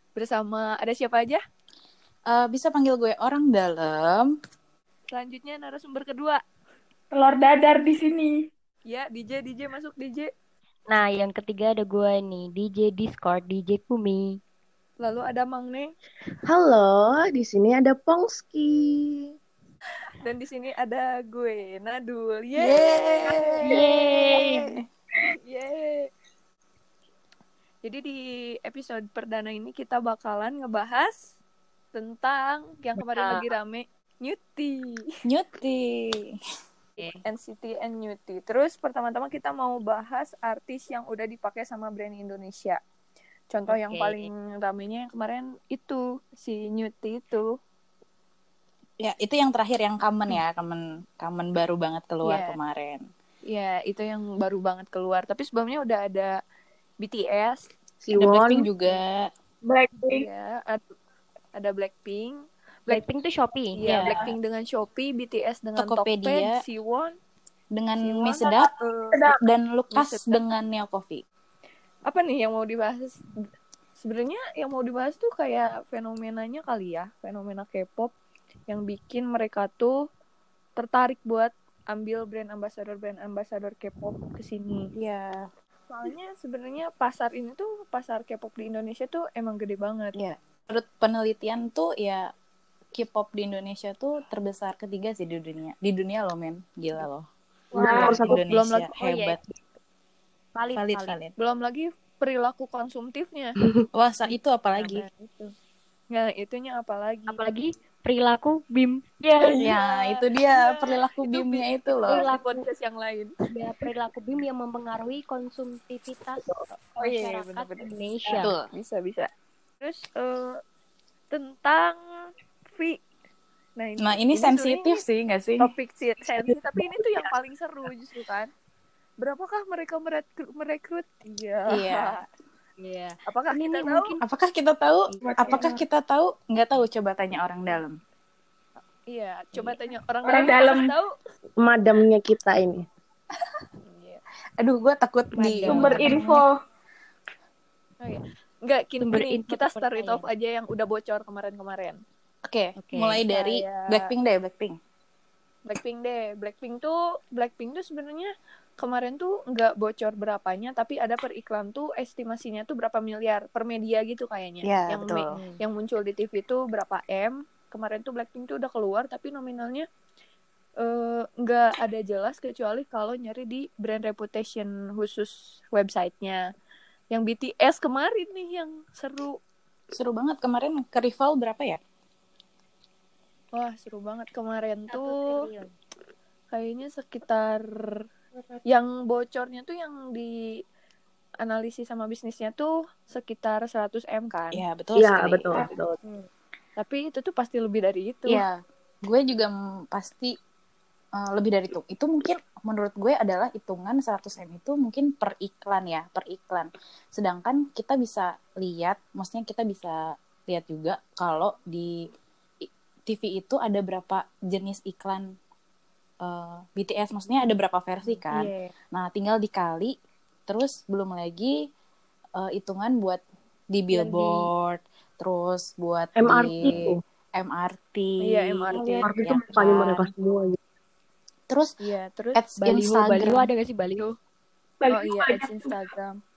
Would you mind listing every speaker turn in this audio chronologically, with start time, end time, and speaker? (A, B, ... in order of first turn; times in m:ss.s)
0:00.1-0:01.4 A
0:02.3-0:04.4 B
0:05.1-0:06.4 A
0:07.1-0:08.4 C
0:08.9-0:10.3 A
0:10.9-0:14.4 D
0:15.0-0:15.9 A
0:16.4-0:19.3 E
0:20.2-0:24.5 A
0:22.6-0:24.8 B
0:23.6-0:24.7 D
0:25.4-0:26.1 A
0:27.8-0:31.3 A
0:31.9-0:35.1 A
0:33.0-0:33.4 D
0:35.2-0:36.4 B
0:37.2-0:42.8 A
0:43.5-0:47.6 A
0:43.7-0:44.3 D
0:49.0-0:53.0 B
0:52.2-0:52.6 A
0:53.5-0:56.4 A
0:57.0-0:57.7 A
0:58.0-0:58.7 E
0:58.1-0:59.3 B
0:59.6-1:00.3 C
1:00.1-1:00.9 A
1:01.5-1:03.0 A
1:02.9-1:03.8 D
1:03.7-1:07.2 A
1:03.8-1:04.3 B
1:05.8-1:06.5 B
1:07.7-1:08.7 B
1:08.0-1:09.2 A
1:08.6-1:09.4 C
1:09.4-1:11.2 B
1:09.9-1:10.4 A
1:12.0-1:13.4 A
1:14.0-1:18.1 A
1:18.7-1:20.0 A
1:20.8-1:24.9 A
1:25.0-1:25.5 B
1:25.9-1:30.2 A
1:30.1-1:32.3 B
1:32.9-1:37.3 B
1:37.7-1:38.2 C
1:37.8-1:38.9 A
1:37.8-1:38.3 E
1:37.9-1:39.4 B
1:39.0-1:39.4 D
1:40.5-1:41.1 D
1:40.7-1:41.3 B
1:41.4-1:43.6 A
1:43.6-1:43.8 D
1:43.9-1:45.0 B
1:44.7-1:45.5 A
1:46.1-1:47.4 A
1:47.3-1:49.8 D
1:49.4-1:53.3 A
1:49.6-1:52.2 B
1:52.0-1:52.6 D
1:53.5-1:58.5 D
1:57.0-1:59.3 A
1:58.4-1:58.7 B
1:59.8-2:00.6 A
2:01.3-2:03.0 A
2:03.8-2:05.0 A
2:04.0-2:05.7 B
2:05.6-2:08.5 A
2:09.2-2:12.2 A
2:11.7-2:12.2 B
2:12.8-2:14.2 D
2:13.3-2:14.1 A
2:14.2-2:18.0 B
2:15.2-2:15.7 C
2:19.1-2:21.1 A
2:19.5-2:19.8 D
2:20.2-2:20.9 C
2:21.6-2:22.9 E
2:23.9-2:24.2 A
2:24.6-2:26.1 B
2:25.4-2:26.4 D
2:25.7-2:26.5 C
2:28.0-2:32.0 A
2:29.0-2:30.2 D
2:32.4-2:34.8 B
2:32.8-2:33.2 D
2:33.3-2:34.1 A
2:35.6-2:49.9 A
2:44.6-2:45.4 B
2:45.3-2:45.6 D
2:50.8-2:56.4 A
2:57.1-2:59.4 A
2:59.9-3:01.8 B
3:03.5-3:05.3 A
3:04.9-3:05.7 D
3:06.5-3:08.0 A
3:08.7-3:10.5 A
3:11.4-3:14.6 A
3:14.5-3:15.6 B
3:15.0-3:16.0 E
3:16.8-3:18.4 A
3:18.3-3:20.4 B
3:21.2-3:32.1 B
3:32.6-3:35.3 B
3:36.2-3:39.9 B
3:38.2-3:38.5 D
3:40.5-3:41.6 B
3:42.4-3:43.2 B
3:43.7-3:50.1 B
3:43.9-3:44.4 D
3:46.2-3:47.0 E
3:48.2-3:49.1 A
3:49.0-3:50.6 E
3:51.5-3:51.7 B
3:51.8-3:52.4 A
3:52.3-3:53.5 B
3:52.6-3:54.1 D
3:54.8-3:55.8 C
3:54.9-3:56.2 A